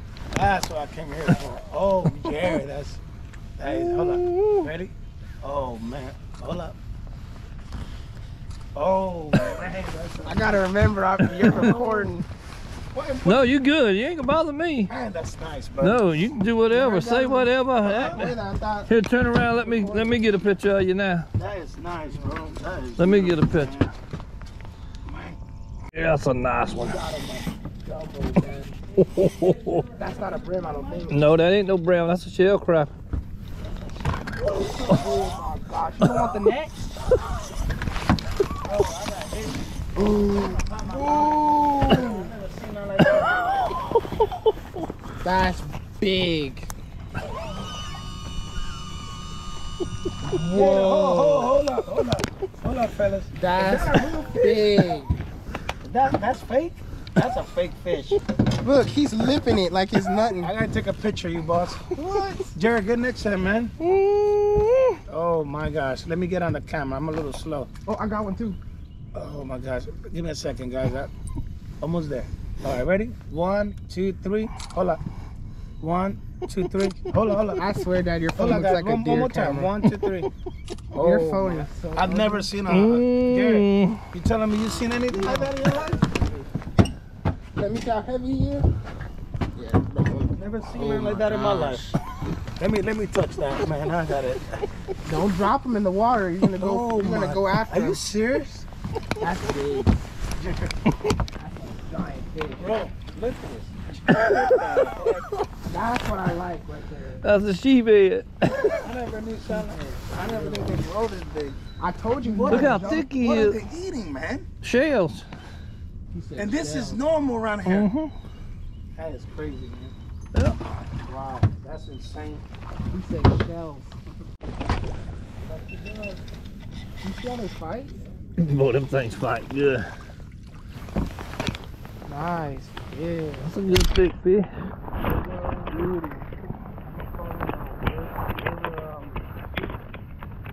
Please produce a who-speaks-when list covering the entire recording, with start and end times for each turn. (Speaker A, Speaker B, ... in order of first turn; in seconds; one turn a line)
Speaker A: 0.3-3.0
Speaker A: 3.6-6.8
Speaker B: 3.6-4.7
Speaker A: 8.8-10.6
Speaker C: 10.2-12.3
Speaker A: 11.3-12.1
Speaker A: 12.9-13.5
Speaker B: 13.2-14.9
Speaker A: 14.9-16.0
Speaker B: 15.8-18.3
Speaker C: 16.7-18.9
Speaker A: 17.8-18.3
Speaker B: 18.9-21.3
Speaker C: 19.5-20.2
Speaker A: 21.3-23.9
Speaker B: 23.0-23.7
Speaker A: 25.1-25.4
Speaker B: 25.9-27.0
Speaker A: 26.8-27.5
Speaker C: 27.9-28.7
Speaker A: 28.1-31.3
Speaker B: 29.0-29.8
Speaker C: 29.9-31.2
Speaker B: 31.1-32.9
Speaker C: 34.5-36.7
Speaker A: 38.6-43.8
Speaker C: 39.9-42.3
Speaker C: 45.2-46.7
Speaker C: 50.2-51.5
Speaker A: 50.5-55.0
Speaker C: 53.4-55.1
Speaker A: 55.8-58.2
Speaker C: 58.6-60.5
Speaker A: 60.4-61.9
Speaker C: 61.9-62.5
Speaker A: 62.5-63.8
Speaker B: 63.8-65.0
Speaker A: 65.1-67.7
Speaker C: 67.8-68.6
Speaker A: 69.1-71.1
Speaker A: 71.8-75.0
Speaker A: 75.8-77.6
Speaker C: 77.5-79.7
Speaker A: 78.4-80.3
Speaker A: 80.9-86.0
Speaker C: 80.9-82.5
Speaker B: 82.7-84.0
Speaker C: 85.1-86.5
Speaker C: 87.5-88.7
Speaker C: 89.5-91.9
Speaker A: 90.3-91.9
Speaker A: 92.6-94.6
Speaker C: 95.0-98.0
Speaker A: 96.5-98.7
Speaker C: 99.2-100.0
Speaker A: 100.3-100.7
Speaker C: 101.4-102.8
Speaker A: 102.6-105.2
Speaker B: 104.1-104.7
Speaker C: 105.7-107.2
Speaker B: 107.2-108.8
Speaker A: 108.8-111.6
Speaker C: 109.5-110.8
Speaker C: 111.8-113.1
Speaker A: 112.2-114.5
Speaker B: 112.5-113.6
Speaker B: 114.6-115.2
Speaker C: 116.1-117.0
Speaker A: 116.3-117.9
Speaker B: 117.6-118.1
Speaker A: 118.9-119.9
Speaker B: 120.3-120.6
Speaker A: 121.0-122.4
Speaker C: 122.9-124.0
Speaker A: 125.4-126.2
Speaker C: 127.0-128.0
Speaker A: 127.9-128.2
Speaker B: 128.4-129.9
Speaker C: 132.1-133.6
Speaker B: 133.4-134.5
Speaker A: 135.0-135.8
Speaker C: 135.7-136.3
Speaker A: 136.8-139.2